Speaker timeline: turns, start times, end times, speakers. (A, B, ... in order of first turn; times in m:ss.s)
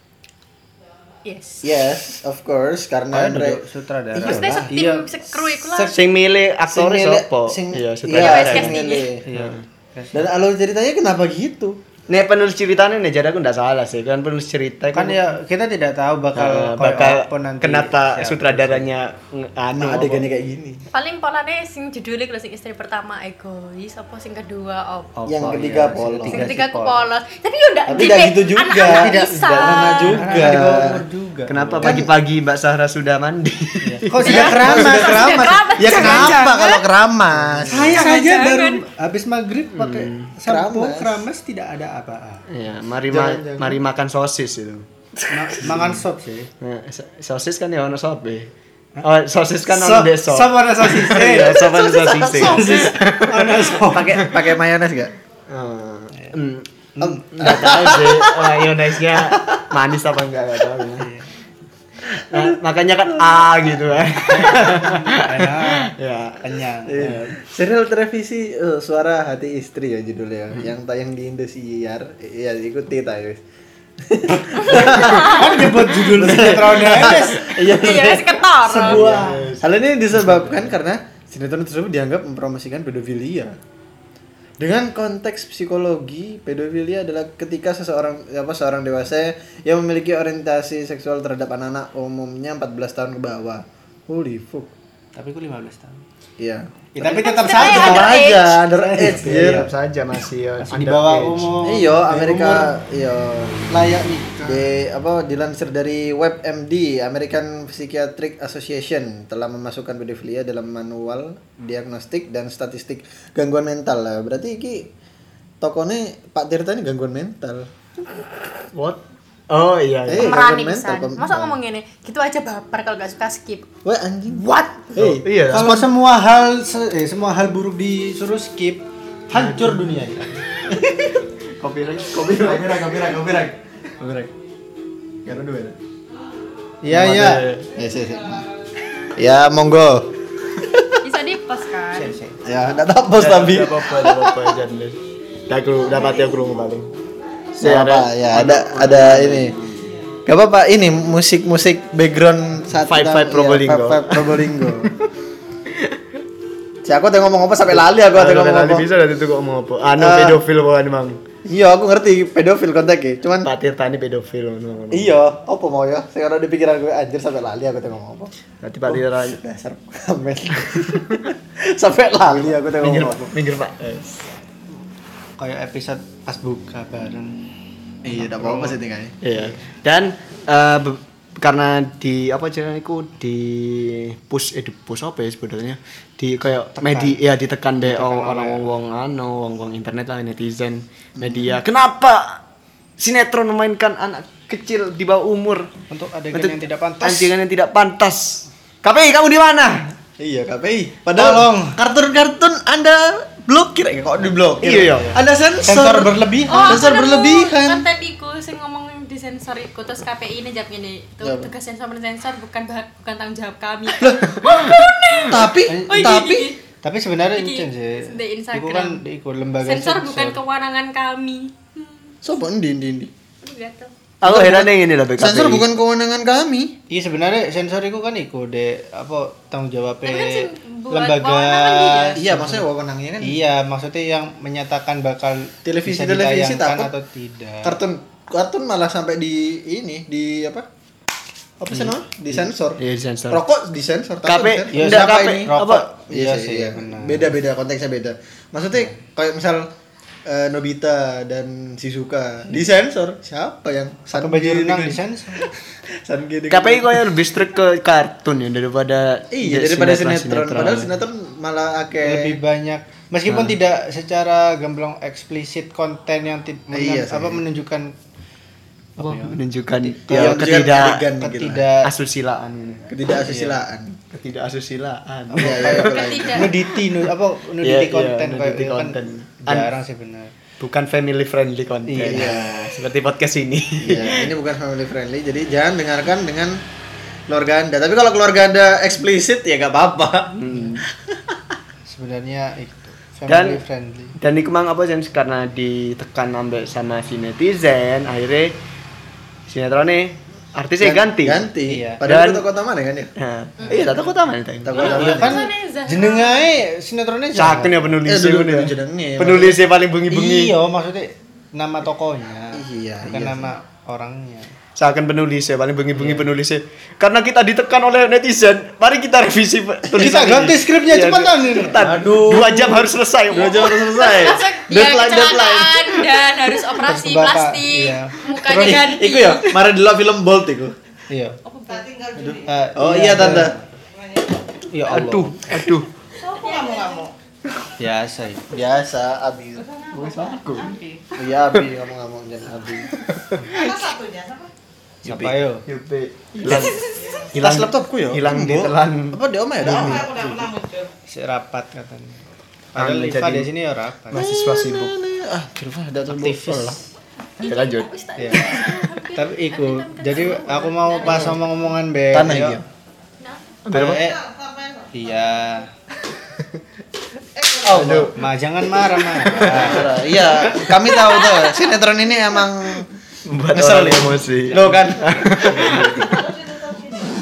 0:01.2-0:01.8 A
0:01.6-0:03.6 B
0:03.1-0:06.0 C
0:04.1-0:04.7 B
0:04.2-0:06.0 A
0:05.9-0:09.6 D
0:06.7-0:09.2 B
0:08.1-0:09.1 A
0:09.2-0:10.2 C
0:10.1-0:11.8 B
0:12.1-0:15.3 D
0:14.9-0:18.9 C
0:16.3-0:20.3 D
0:19.7-0:20.8 B
0:20.9-0:25.1 A
0:25.2-0:27.0 C
0:25.3-0:26.5 B
0:25.4-0:25.7 D
0:26.3-0:30.5 A
0:27.9-0:31.0 B
0:28.8-0:32.0 C
0:31.5-0:34.9 D
0:31.8-0:32.1 B
0:33.8-0:36.4 C
0:34.2-0:36.8 A
0:34.2-0:38.0 B
0:37.5-0:37.9 D
0:37.6-0:42.5 C
0:37.9-0:38.8 A
0:39.7-0:40.3 D
0:40.4-0:41.2 B
0:42.5-0:44.9 D
0:43.1-0:43.8 C
0:45.3-0:46.5 C
0:45.6-0:46.0 D
0:46.6-0:48.5 D
0:49.0-0:54.5 D
0:49.7-0:54.2 C
0:51.2-0:52.9 B
0:53.8-0:55.1 B
0:55.5-0:56.7 D
0:57.0-0:57.3 C
0:57.2-1:01.1 D
0:57.4-0:59.6 B
1:01.0-1:01.3 C
1:02.0-1:06.6 D
1:04.3-1:07.3 C
1:06.9-1:13.4 B
1:14.0-1:23.6 B
1:14.6-1:17.8 C
1:14.7-1:15.5 A
1:16.9-1:17.2 D
1:17.5-1:19.0 A
1:18.6-1:19.6 C
1:18.9-1:19.6 D
1:20.1-1:20.8 C
1:24.6-1:34.7 B
1:35.1-1:36.0 C
1:36.4-1:39.7 B
1:36.9-1:39.7 C
1:37.0-1:38.6 A
1:39.0-1:41.6 D
1:40.6-1:42.7 C
1:41.6-1:43.7 B
1:43.7-1:44.7 C
1:44.4-1:54.9 B
1:55.6-1:57.7 B
1:58.7-2:00.4 D
2:00.0-2:01.6 B
2:00.2-2:03.6 A
2:03.8-2:05.8 B
2:04.3-2:05.9 D
2:05.5-2:10.4 C
2:09.3-2:09.7 D
2:10.7-2:11.1 B
2:11.6-2:13.1 D
2:12.2-2:14.3 B
2:15.2-2:15.8 B
2:16.8-2:17.4 C
2:16.9-2:17.6 D
2:17.8-2:18.4 B
2:19.2-2:21.0 B
2:21.0-2:22.1 A
2:22.0-2:22.4 C
2:22.4-2:24.3 B
2:23.2-2:25.0 D
2:25.5-2:26.9 D
2:27.6-2:29.9 D
2:27.6-2:29.5 B
2:30.2-2:34.9 B
2:32.8-2:35.1 D
2:35.7-2:36.0 D
2:36.8-2:38.8 B
2:37.7-2:41.2 D
2:40.0-2:40.4 B
2:41.4-2:43.5 B
2:43.4-2:45.1 D
2:44.9-2:48.3 B
2:48.6-2:49.4 D
2:48.8-2:53.2 B
2:50.7-2:51.1 D
2:52.7-2:54.2 D
2:55.4-2:57.4 C
2:58.0-2:59.1 B
2:58.2-2:59.6 C
2:59.2-3:12.4 D
3:06.7-3:07.2 C
3:07.8-3:08.7 C
3:11.2-3:11.5 B
3:13.0-3:15.7 D
3:15.9-3:17.3 C
3:16.3-3:19.9 D
3:20.2-3:27.8 B
3:21.1-3:21.8 C
3:24.6-3:25.1 D
3:24.8-3:26.9 C
3:26.5-3:36.6 A
3:31.2-3:31.5 B
3:34.0-3:34.6 B
3:35.2-3:36.5 B
3:35.7-3:36.2 C
3:36.8-3:40.4 C
3:37.3-3:39.0 A
3:39.6-3:42.1 A
3:42.2-3:43.1 B
3:43.4-3:43.9 A
3:44.2-3:45.6 D
3:44.2-3:46.7 B
3:46.9-3:52.6 C
3:50.0-3:52.2 A
3:52.2-3:53.4 B
3:53.2-3:57.8 C
3:55.6-3:56.9 B
3:57.6-4:00.6 B
4:01.6-4:05.5 B
4:01.7-4:02.4 C
4:02.8-4:03.4 D
4:04.2-4:05.9 D
4:04.7-4:07.3 C
4:06.1-4:09.7 B
4:10.2-4:15.5 B
4:14.1-4:15.5 C
4:16.0-4:17.1 B
4:16.5-4:20.9 D
4:19.3-4:22.4 B
4:22.0-4:28.0 C
4:23.3-4:23.5 D
4:26.7-4:27.4 B
4:29.0-4:30.5 C
4:29.0-4:31.1 D
4:30.1-4:31.6 B
4:31.2-4:31.9 C
4:31.8-4:33.0 D
4:32.9-4:34.0 B
4:33.3-4:33.6 C
4:34.1-4:36.0 D
4:35.3-4:40.3 C
4:35.4-4:36.5 B
4:35.8-4:36.5 A
4:37.6-4:39.7 D
4:40.6-4:44.3 D
4:41.9-4:42.4 C
4:42.1-4:42.7 B
4:43.8-4:46.6 B
4:47.3-4:51.2 B
4:50.4-4:50.8 D
4:51.9-4:54.1 C
4:53.3-4:53.6 D
4:54.2-4:58.6 D
4:59.5-5:01.5 D
5:00.8-5:03.1 B
5:01.7-5:02.0 C
5:02.0-5:02.4 D
5:03.2-5:05.4 D
5:03.6-5:03.9 C
5:04.6-5:05.4 B
5:04.7-5:06.5 A
5:04.8-5:08.0 C
5:07.3-5:10.5 D
5:08.0-5:09.6 B
5:10.1-5:14.6 C
5:12.5-5:13.5 B
5:14.8-5:24.0 D
5:15.9-5:16.3 C
5:19.9-5:22.4 C
5:21.8-5:26.0 B
5:23.3-5:29.5 A
5:26.8-5:28.2 C
5:28.4-5:30.7 B
5:31.1-5:31.4 C
5:31.4-5:31.9 A
5:32.2-5:33.5 B
5:32.2-5:33.8 C
5:34.7-5:35.5 C
5:34.9-5:35.9 D
5:36.3-5:37.1 A
5:37.8-5:38.5 C
5:38.5-5:39.8 B
5:39.9-5:40.8 D
5:41.1-5:42.9 B
5:43.0-5:43.9 D
5:45.0-5:45.6 C
5:45.0-5:50.4 D
5:46.5-5:47.2 A
5:47.3-5:50.4 B
5:49.7-5:50.2 C
5:51.1-5:54.2 C
5:52.8-5:53.5 D
5:54.1-5:54.9 D
5:54.1-5:56.8 B
5:56.1-5:56.8 C
5:57.4-6:01.5 A
5:57.4-5:57.9 D
5:58.2-5:58.6 C
5:59.1-6:02.6 C
6:02.1-6:02.6 B
6:03.6-6:04.1 D
6:03.7-6:04.2 C
6:04.9-6:05.7 C
6:06.3-6:06.6 D
6:07.6-6:08.2 D
6:07.6-6:08.1 B
6:07.8-6:10.0 C
6:08.8-6:10.8 D
6:09.4-6:12.9 B
6:10.9-6:11.7 A
6:13.2-6:16.2 D
6:13.5-6:15.9 B
6:14.5-6:14.8 C
6:15.4-6:16.0 C